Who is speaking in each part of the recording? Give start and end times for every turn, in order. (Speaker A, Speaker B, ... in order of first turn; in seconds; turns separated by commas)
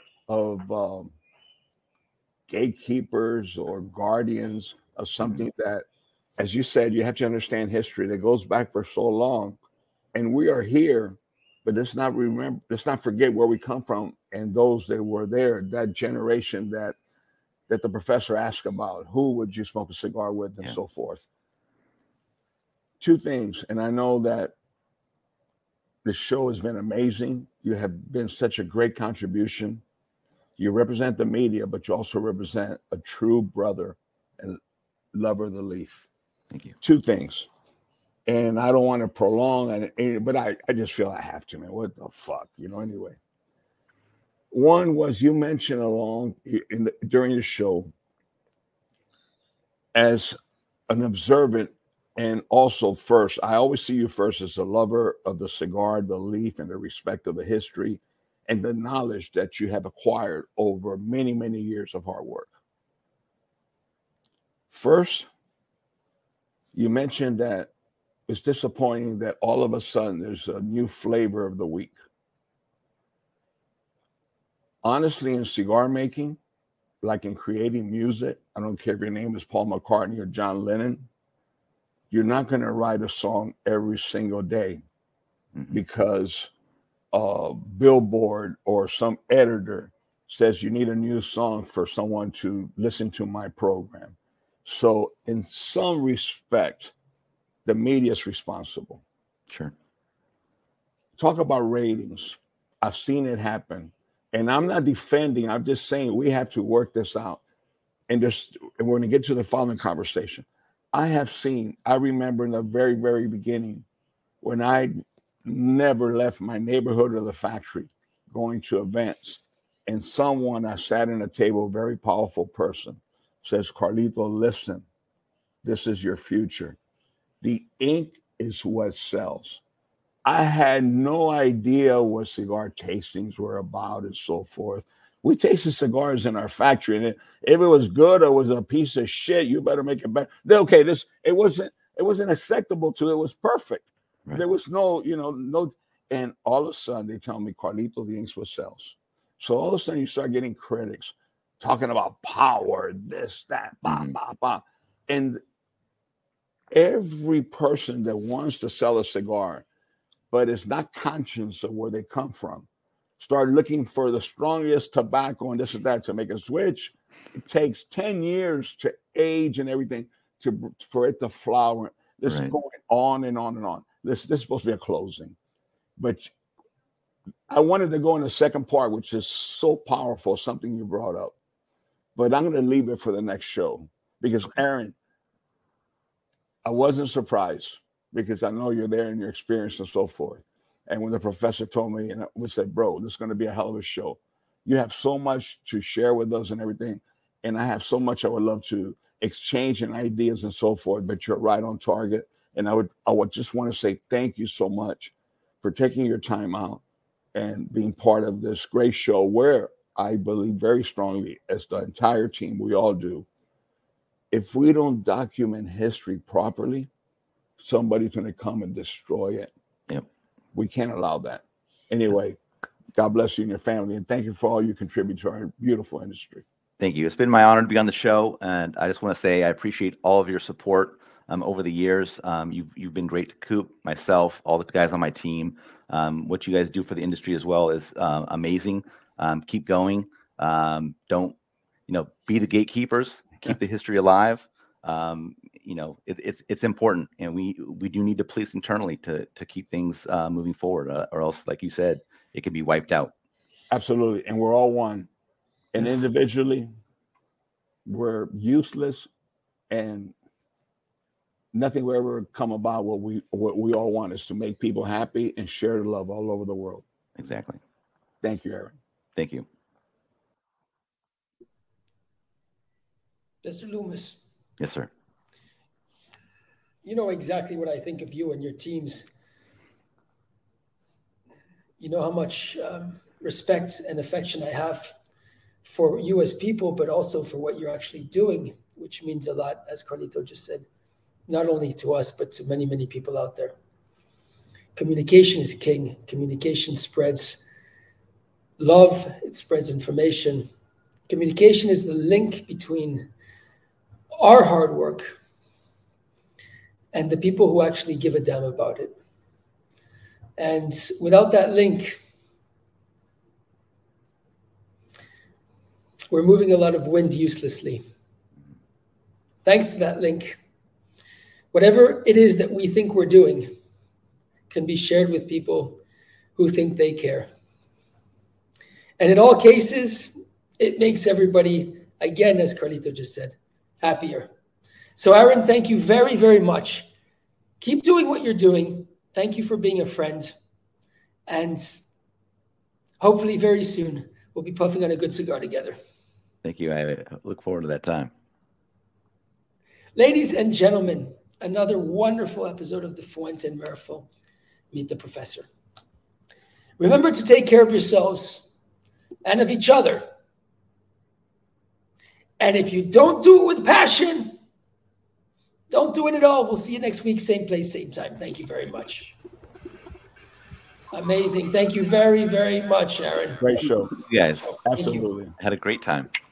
Speaker A: 0.3-1.1, Speaker A: 2.5-5.8, Speaker A: 6.4-9.6, Speaker A: 10.1-16.9, Speaker A: 17.7-21.2, Speaker A: 23.0-24.5, Speaker A: 26.0-29.8, Speaker A: 30.6-34.6, Speaker A: 35.1-36.0, Speaker A: 36.8-37.5, Speaker A: 38.3-43.2, Speaker A: 44.5-47.9, Speaker A: 49.9-50.4, Speaker A: 50.9-62.5, Speaker A: 64.7-65.3, Speaker A: 66.7-67.7, Speaker A: 68.3-72.0, Speaker A: 74.8-76.4, Speaker A: 77.0-81.0, Speaker A: 82.1-84.8, Speaker A: 85.7-86.5, Speaker A: 87.1-96.9, Speaker A: 97.7-99.0, Speaker A: 101.2-107.4, Speaker A: 108.1-113.8, Speaker A: 114.4-124.8, Speaker A: 125.6-126.8, Speaker A: 127.4-129.6, Speaker A: 130.2-155.4, Speaker B: 153.8-154.1, Speaker A: 156.7-159.6, Speaker A: 160.3-162.7, Speaker A: 163.2-175.3, Speaker B: 172.3-172.5, Speaker A: 176.0-176.3, Speaker A: 177.5-181.3, Speaker A: 182.2-184.9, Speaker A: 186.6-206.8, Speaker A: 207.3-213.2, Speaker A: 214.3-216.9, Speaker A: 217.6-219.5, Speaker A: 220.5-222.4, Speaker A: 222.9-226.4, Speaker B: 226.8-241.3, Speaker B: 241.9-253.1, Speaker A: 253.7-255.1, Speaker A: 255.7-256.7, Speaker A: 257.9-259.1, Speaker A: 259.7-260.1, Speaker A: 261.5-266.8, Speaker B: 267.2-267.6, Speaker A: 268.2-268.7, Speaker B: 269.1-269.4, Speaker C: 273.4-274.2, Speaker B: 274.6-274.9, Speaker C: 276.8-279.1, Speaker C: 281.8-284.9, Speaker C: 285.6-290.6, Speaker C: 291.3-293.5, Speaker C: 294.8-297.4, Speaker C: 298.6-300.5, Speaker C: 301.1-303.1, Speaker C: 304.2-305.1, Speaker C: 306.9-308.9, Speaker C: 310.4-312.0, Speaker C: 316.1-317.8, Speaker C: 319.4-320.4, Speaker C: 321.5-323.5, Speaker C: 324.5-325.8, Speaker C: 326.4-327.3, Speaker C: 329.0-334.3, Speaker C: 335.0-336.9, Speaker C: 337.6-340.3, Speaker C: 341.3-341.8, Speaker C: 343.0-345.8, Speaker B: 346.4-348.1, Speaker C: 349.9-354.1, Speaker C: 354.7-355.5, Speaker C: 356.8-358.5, Speaker C: 359.2-360.1, Speaker C: 362.4-364.4, Speaker C: 365.7-369.1, Speaker C: 370.9-373.4, Speaker A: 373.4-373.9, Speaker B: 373.9-374.6, Speaker C: 374.5-375.1, Speaker A: 374.6-375.3, Speaker B: 375.4-376.1